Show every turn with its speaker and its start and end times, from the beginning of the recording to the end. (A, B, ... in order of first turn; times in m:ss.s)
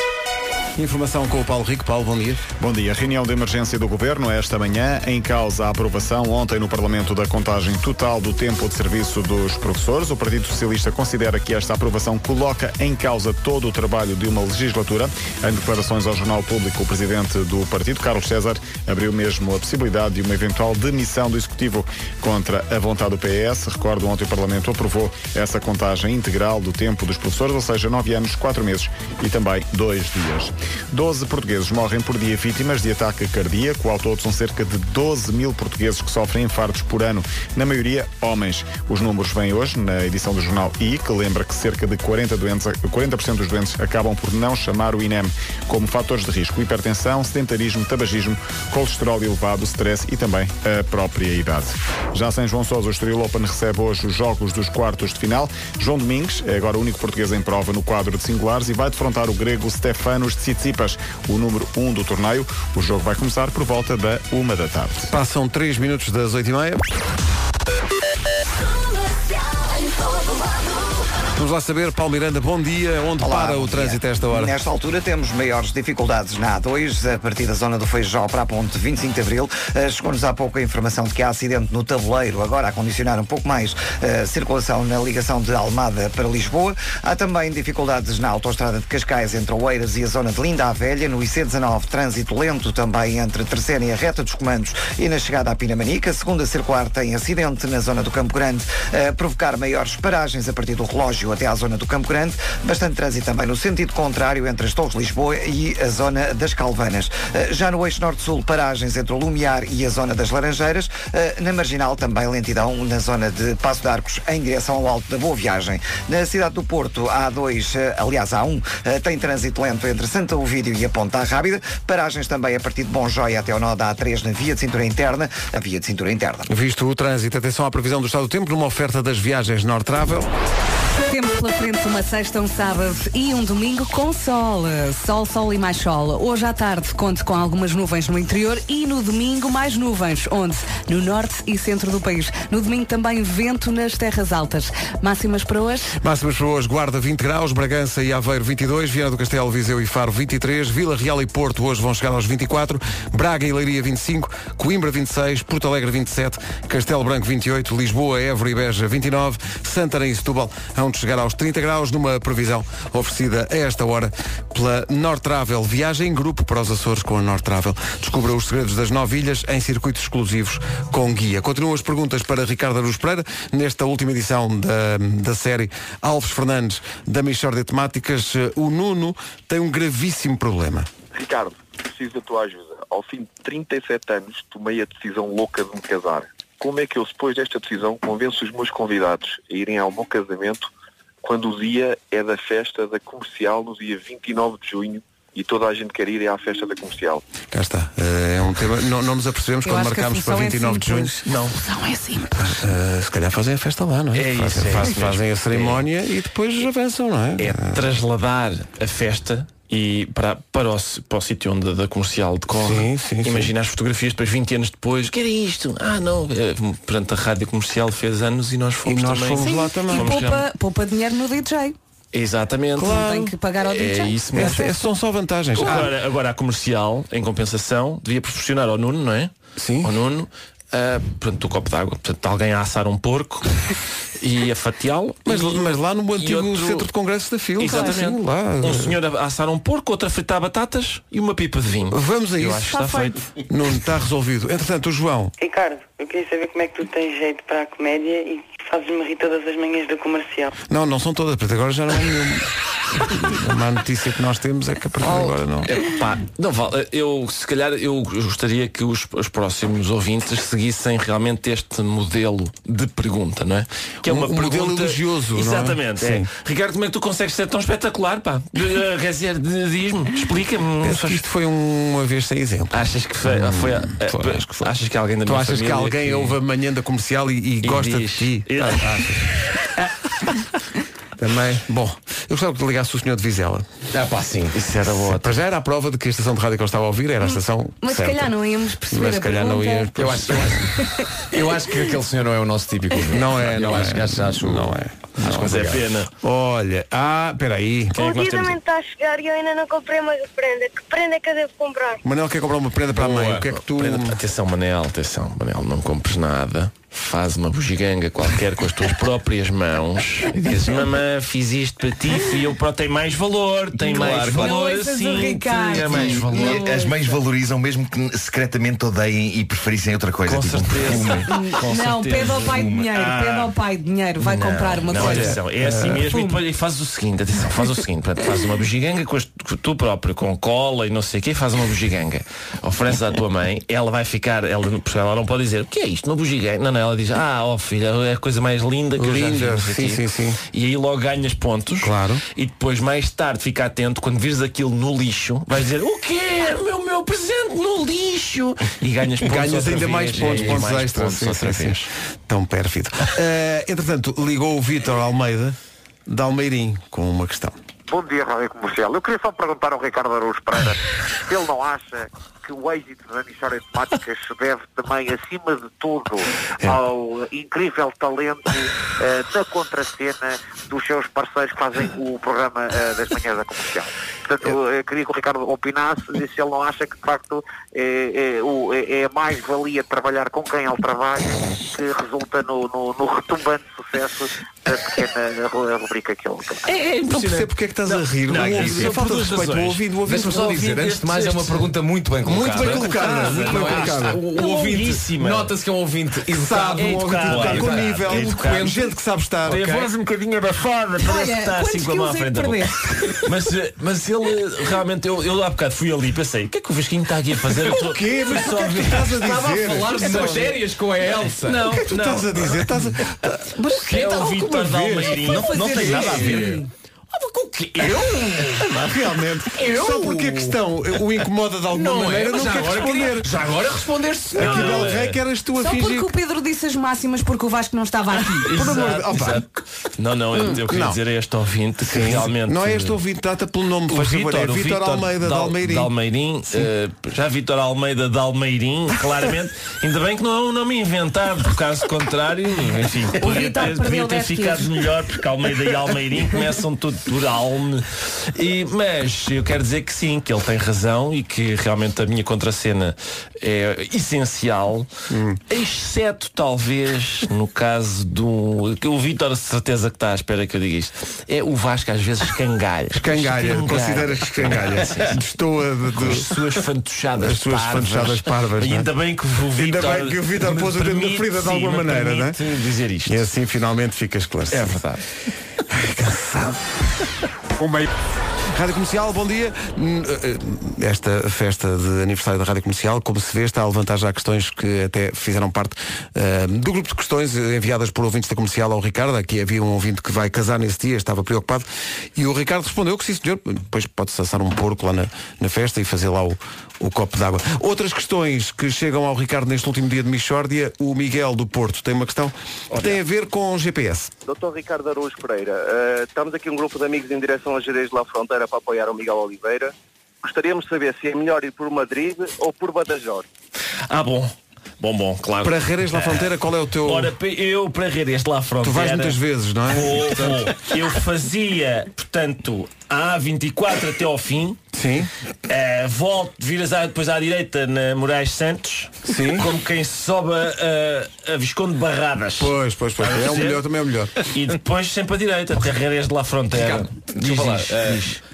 0:00.8-0:02.4 A
0:02.6-1:05.1 B
1:05.1-1:06.8 A
1:11.3-1:14.5 A
1:13.2-2:06.5 C
2:06.5-2:10.3 A
2:11.0-2:25.9 D
2:26.0-3:00.9 A
3:01.1-3:10.7 E
3:11.2-3:17.2 E
3:17.5-3:21.1 A
3:19.6-3:22.6 D
3:21.3-3:21.6 F
3:22.4-3:27.8 A
3:24.1-3:25.8 F
3:27.4-3:40.5 F
3:32.5-3:33.5 A
3:38.8-3:40.2 A
3:39.4-3:41.7 D
3:42.1-3:44.7 F
3:42.8-3:43.3 A
3:42.8-3:44.7 D
3:44.3-3:45.9 A
3:45.5-3:49.3 F
3:49.6-3:49.9 A
3:49.8-3:53.5 F
3:54.2-3:56.9 F
3:55.2-3:59.0 A
3:57.6-4:03.2 F
4:01.9-4:05.3 A
4:05.4-4:10.5 G
4:10.7-4:12.5 A
4:13.1-4:15.7 A
4:15.1-4:31.2 F
4:24.0-4:26.3 A
4:30.8-4:34.7 A
4:32.7-4:36.3 F
4:35.2-4:39.3 A
4:37.6-4:39.7 F
4:41.2-4:43.6 A
4:43.9-4:44.7 H
4:44.6-4:45.3 F
4:44.8-4:48.3 A
4:47.8-4:49.9 D
4:48.9-4:50.6 A
4:50.0-4:50.7 H
4:50.8-4:51.1 D
4:51.3-4:55.8 H
4:53.1-4:58.0 A
4:55.3-4:56.1 F
4:58.0-4:58.6 F
4:58.0-5:02.0 I
5:02.0-5:04.2 A
5:03.0-5:16.7 F
5:13.8-5:14.6 J
5:13.9-5:17.2 D
5:15.8-5:21.5 J
5:20.2-5:22.7 F
5:21.3-5:25.4 D
5:22.2-5:23.5 J
5:24.2-5:51.9 F
5:24.9-5:26.0 A
5:26.0-5:26.4 D
5:39.0-5:40.4 A
5:41.8-5:42.2 A
5:49.2-5:55.6 A
5:50.2-5:50.6 H
5:56.1-5:57.6 A
5:57.9-6:26.6 K
6:26.6-6:31.7 F
6:27.1-6:30.6 A
6:28.4-6:28.9 H
6:30.0-6:38.8 H
6:32.2-6:35.5 F
6:32.3-6:34.2 A
6:36.3-6:39.8 A
6:36.8-6:38.8 F
6:39.4-6:49.3 F
6:39.5-6:39.8 H
6:41.0-6:43.2 D
6:47.6-6:50.6 A
6:49.2-6:51.7 H
6:50.0-6:50.4 F
6:51.4-6:52.8 F
6:51.7-6:55.4 A
6:53.8-6:56.5 F
6:55.3-6:56.6 J
6:55.3-6:56.7 D
6:55.7-6:56.6 H
6:57.2-6:58.7 F
6:57.6-6:58.4 H
6:58.6-7:03.3 A
6:59.6-7:00.5 H
7:01.7-7:04.9 H
7:02.3-7:02.9 F
7:04.3-7:05.2 F
7:04.3-7:06.1 A
7:05.6-7:08.6 D
7:08.4-7:13.0 F
7:08.5-7:09.4 A
7:10.5-7:11.0 A
7:11.8-7:15.9 A
7:13.9-7:34.9 F
7:23.2-7:24.8 D
7:35.1-7:35.4 A
7:35.5-7:45.2 F
7:42.9-7:46.4 A
7:45.9-7:53.3 F
7:47.2-7:48.9 A
7:49.6-7:52.4 A
7:53.0-7:54.8 A
7:54.5-7:55.0 F
7:55.7-7:56.6 A
7:57.6-7:57.9 A
7:58.5-8:24.1 A
8:24.2-8:33.2 L
8:33.9-8:44.6 F
8:35.4-8:37.1 A
8:38.6-8:40.5 A
8:44.7-8:45.1 A
8:45.5-8:53.6 F
8:49.0-8:49.5 A
8:52.4-8:54.1 A
8:54.2-8:58.2 F
8:56.5-8:58.0 H